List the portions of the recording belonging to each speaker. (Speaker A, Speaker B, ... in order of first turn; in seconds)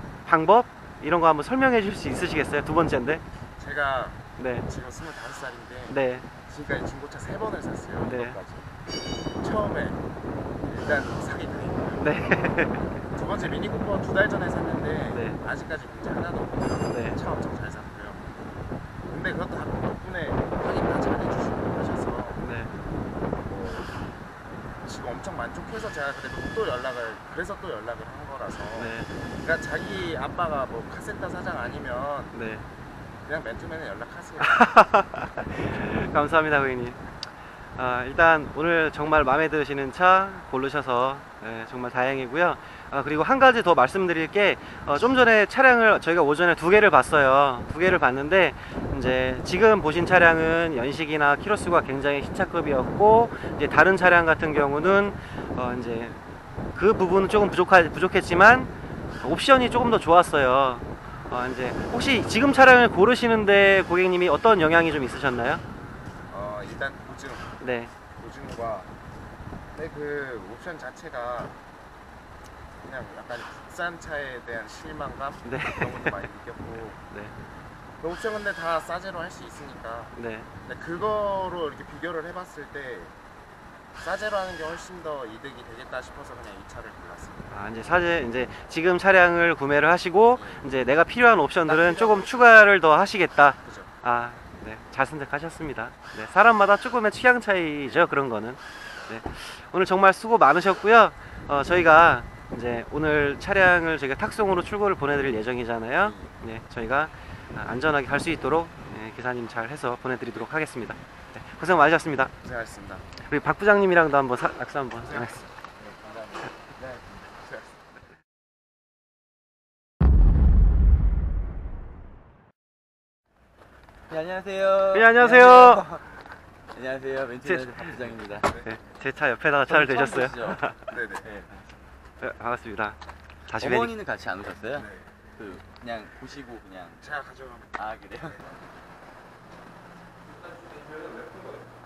Speaker A: 0.2-3.2, 4.4-4.7, 5.9-6.2, 8.0-8.4, 12.0-12.9, 15.1-15.4, 16.9-17.2, 22.4-22.7, 28.8-29.1, 32.3-32.6, 34.4-37.0, 37.8-56.2, 56.7-58.7, 59.2-65.6, 67.6-67.9, 75.4-76.2, 80.1-80.5, 87.5-112.3, 113.2-115.4, 124.9-125.9, 127.4-127.8, 128.6-130.9, 132.2-133.9
Speaker B: 3.6-8.7, 9.3-10.0, 10.6-12.2, 13.1-18.2, 19.1-22.4, 23.4-24.1, 24.8-32.3, 33.2-34.7, 66.3-67.5, 68.2-68.9, 69.7-71.5, 72.8-77.0, 78.0-83.1, 84.0-87.5, 90.3-90.7, 91.6-92.5, 93.5-93.9, 106.0-106.3, 112.4-113.1, 115.0-115.5, 116.8-117.9, 130.9-131.3, 134.8-135.0, 137.0-137.8
Speaker C: 115.8-116.5, 124.1-126.2, 126.7-128.6, 129.6-131.6, 133.5-137.1, 137.7-138.6, 140.3-141.7